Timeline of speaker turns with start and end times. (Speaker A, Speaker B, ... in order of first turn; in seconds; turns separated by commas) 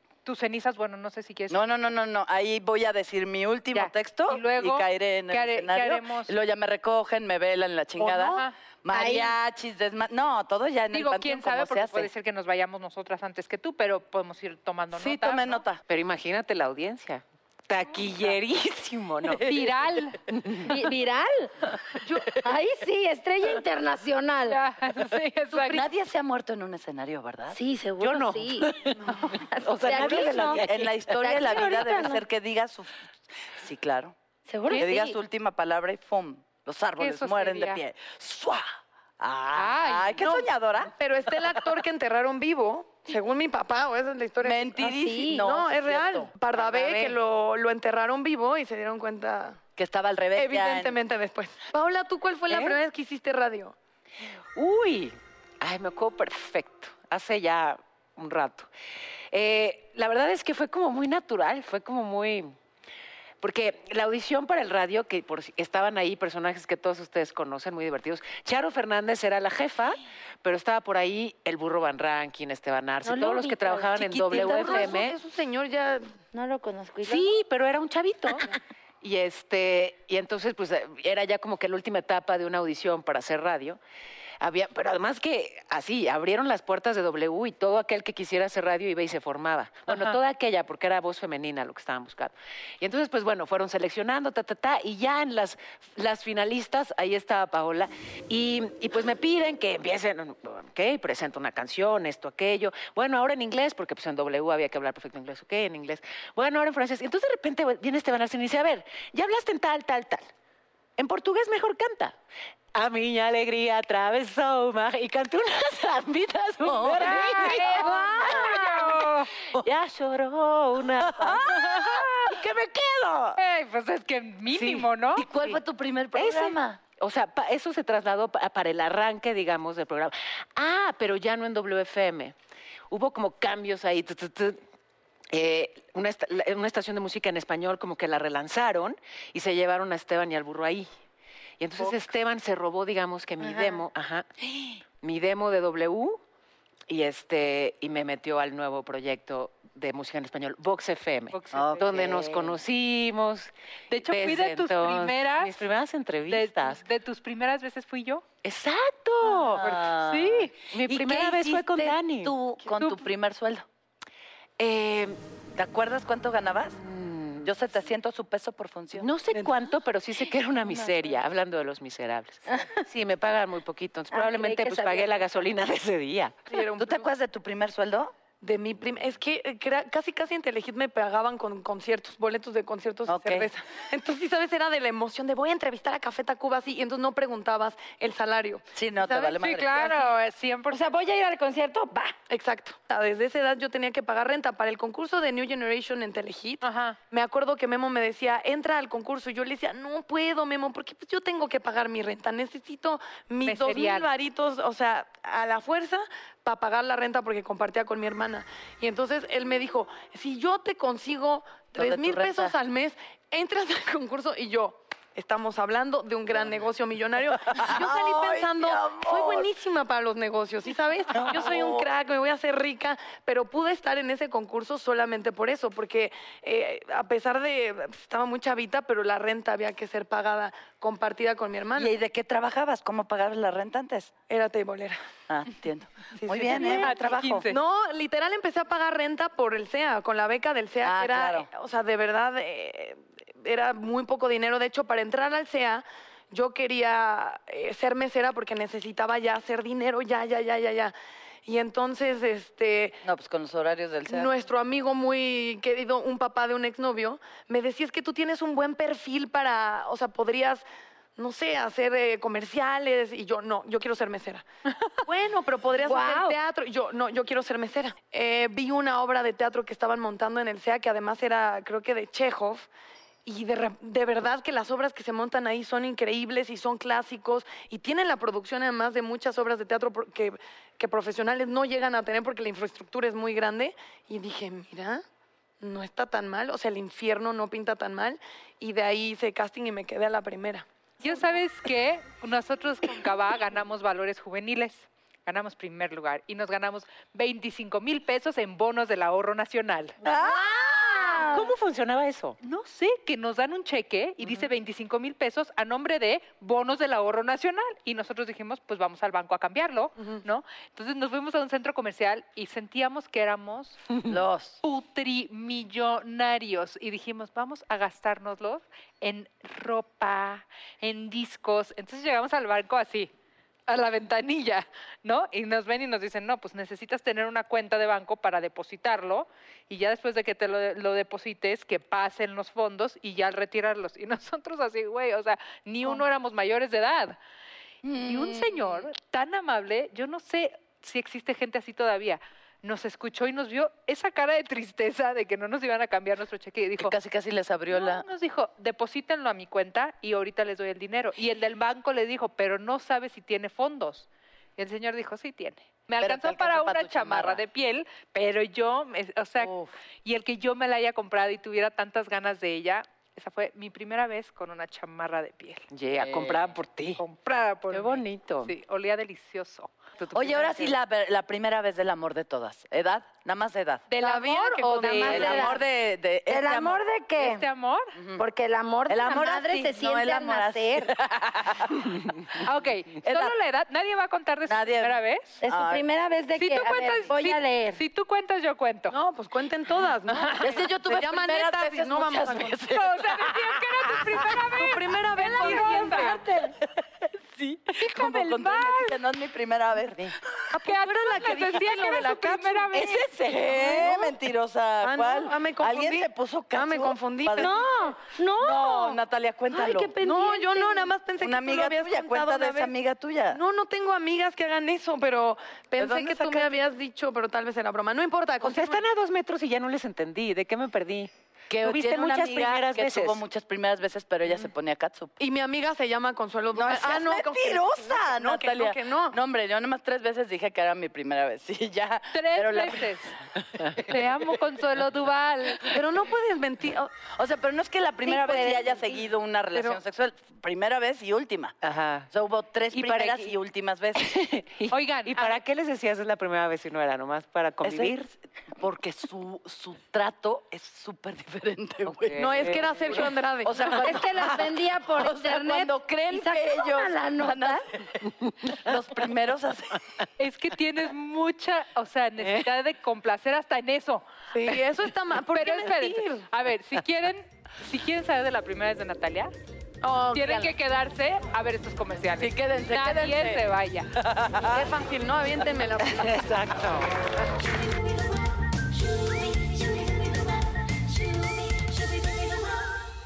Speaker A: 0.2-1.6, Speaker B: 1.5-12.1, Speaker A: 3.7-6.3, Speaker A: 8.2-8.5, Speaker C: 8.9-9.3, Speaker A: 10.9-15.6, Speaker B: 14.9-15.8, Speaker D: 15.9-19.4, Speaker A: 19.4-20.2, Speaker D: 20.3-20.7, Speaker C: 20.6-21.5, Speaker E: 22.1-22.3, Speaker C: 22.4-24.6, Speaker A: 24.5-25.8, Speaker B: 25.5-27.6, Speaker C: 27.5-30.6, Speaker D: 28.0-28.9, Speaker D: 29.6-30.9, Speaker B: 29.9-32.9, Speaker C: 31.2-32.2, Speaker B: 33.5-34.1, Speaker C: 34.5-35.2, Speaker B: 34.7-38.6, Speaker A: 37.0-37.8, Speaker B: 39.2-40.9, Speaker A: 39.5-40.2, Speaker E: 40.2-44.8, Speaker B: 44.4-47.1, Speaker C: 44.8-45.4, Speaker E: 45.3-49.6, Speaker B: 49.8-51.0, Speaker E: 50.3-53.7, Speaker D: 54.5-58.7, Speaker D: 59.3-62.5, Speaker D: 63.4-75.1, Speaker C: 73.0-73.9, Speaker E: 73.9-76.1, Speaker C: 74.4-75.0, Speaker C: 76.3-77.3, Speaker D: 77.1-78.5, Speaker D: 79.0-83.8, Speaker D: 84.4-110.3, Speaker A: 89.9-90.2, Speaker D: 111.0-112.2, Speaker D: 112.7-117.8, Speaker B: 116.6-119.0, Speaker A: 116.8-119.3, Speaker C: 117.1-118.5, Speaker D: 119.6-121.4, Speaker B: 121.0-123.4, Speaker A: 121.3-122.3, Speaker A: 123.3-125.5, Speaker D: 124.5-124.9, Speaker B: 125.2-126.8, Speaker D: 126.1-132.3, Speaker D: 132.9-134.6, Speaker D: 135.3-140.9, Speaker D: 141.6-144.3, Speaker D: 144.9-146.2, Speaker D: 146.9-153.5, Speaker A: 151.3-152.1, Speaker B: 151.5-152.5, Speaker A: 153.9-155.7, Speaker D: 154.1-156.8, Speaker A: 156.3-158.2, Speaker D: 158.4-159.6, Speaker B: 159.3-163.6, Speaker A: 159.3-160.6, Speaker D: 160.7-162.3, Speaker A: 162.7-163.0, Speaker D: 164.6-165.2, Speaker B: 165.5-166.8, Speaker D: 166.8-167.5, Speaker B: 167.4-169.1, Speaker D: 169.0-176.4, Speaker C: 172.5-172.8, Speaker C: 174.1-175.2, Speaker E: 176.5-177.1, Speaker B: 176.8-178.1, Speaker E: 178.4-189.9, Speaker B: 183.1-183.5, Speaker B: 188.7-189.8, Speaker A: 189.4-190.8, Speaker C: 190.7-192.2, Speaker E: 192.3-231.9, Speaker A: 196.6-197.0, Speaker A: 203.4-204.1, Speaker B: 211.8-212.5, Speaker B: 217.5-219.5, Speaker B: 221.1-221.9, Speaker B: 231.8-234.2, Speaker E: 234.3-235.0, Speaker B: 235.3-237.4, Speaker E: 236.2-250.9, Speaker A: 236.6-237.6, Speaker B: 240.8-241.5, Speaker E: 251.4-253.0, Speaker B: 253.0-254.3, Speaker E: 254.1-260.6, Speaker E: 261.2-264.4, Speaker E: 265.0-272.7, Speaker C: 265.8-266.4, Speaker E: 273.2-285.0, Speaker E: 285.6-291.1, Speaker A: 291.0-300.0, Speaker B: 300.0-301.2, Speaker C: 300.2-301.5, Speaker D: 301.3-302.4, Speaker A: 302.4-313.8, Speaker B: 314.1-314.6, Speaker A: 314.6-323.1, Speaker A: 323.7-337.2, Speaker B: 337.8-338.9, Speaker A: 338.0-346.9, Speaker B: 346.8-348.1, Speaker A: 347.7-365.6, Speaker B: 356.0-357.4, Speaker B: 359.4-359.7, Speaker D: 365.7-367.0, Speaker B: 366.0-366.4, Speaker A: 366.9-370.7, Speaker D: 367.7-368.5, Speaker B: 370.1-373.9, Speaker A: 373.9-375.5, Speaker E: 374.0-375.4, Speaker C: 374.8-375.6, Speaker B: 375.0-376.8, Speaker C: 376.3-377.4, Speaker A: 377.2-378.0, Speaker B: 377.9-378.2, Speaker C: 378.1-380.9, Speaker B: 378.9-382.4, Speaker A: 382.4-385.4, Speaker B: 383.0-383.3, Speaker B: 384.5-385.8, Speaker C: 385.4-387.8, Speaker A: 386.4-388.9, Speaker E: 388.9-392.6, Speaker B: 390.4-394.1, Speaker A: 392.7-396.2, Speaker E: 394.5-396.2, Speaker C: 395.4-396.5, Speaker A: 397.8-399.0, Speaker B: 397.8-400.1, Speaker E: 400.5-402.8, Speaker A: 400.6-403.1, Speaker D: 402.8-403.5, Speaker B: 403.2-407.6, Speaker E: 403.6-404.0, Speaker E: 404.8-407.6, Speaker C: 407.4-409.0, Speaker B: 408.4-409.9, Speaker C: 409.5-410.9, Speaker E: 410.0-412.7, Speaker B: 411.2-413.4, Speaker E: 413.3-418.8, Speaker B: 415.8-416.6, Speaker D: 418.4-421.1, Speaker B: 421.5-425.1, Speaker D: 421.6-423.2, Speaker E: 425.2-429.2, Speaker B: 426.5-432.9, Speaker A: 432.1-433.1, Speaker A: 433.8-435.7, Speaker E: 435.7-436.9, Speaker B: 437.1-441.5, Speaker C: 438.0-438.7, Speaker E: 439.5-439.8, Speaker D: 441.6-442.1, Speaker B: 442.1-444.0, Speaker D: 442.7-443.3, Speaker D: 443.9-448.1, Speaker A: 444.7-445.4, Speaker B: 447.6-457.9, Speaker D: 451.9-452.6, Speaker E: 452.1-453.8, Speaker C: 453.8-457.6, Speaker B: 458.4-459.8, Speaker A: 460.2-464.6, Speaker D: 462.2-462.5, Speaker E: 464.3-466.3, Speaker A: 465.3-469.3, Speaker E: 469.8-470.1, Speaker B: 469.8-470.5, Speaker A: 470.1-473.9, Speaker B: 472.2-473.5, Speaker B: 474.0-474.7, Speaker E: 474.5-476.4, Speaker D: 476.0-476.9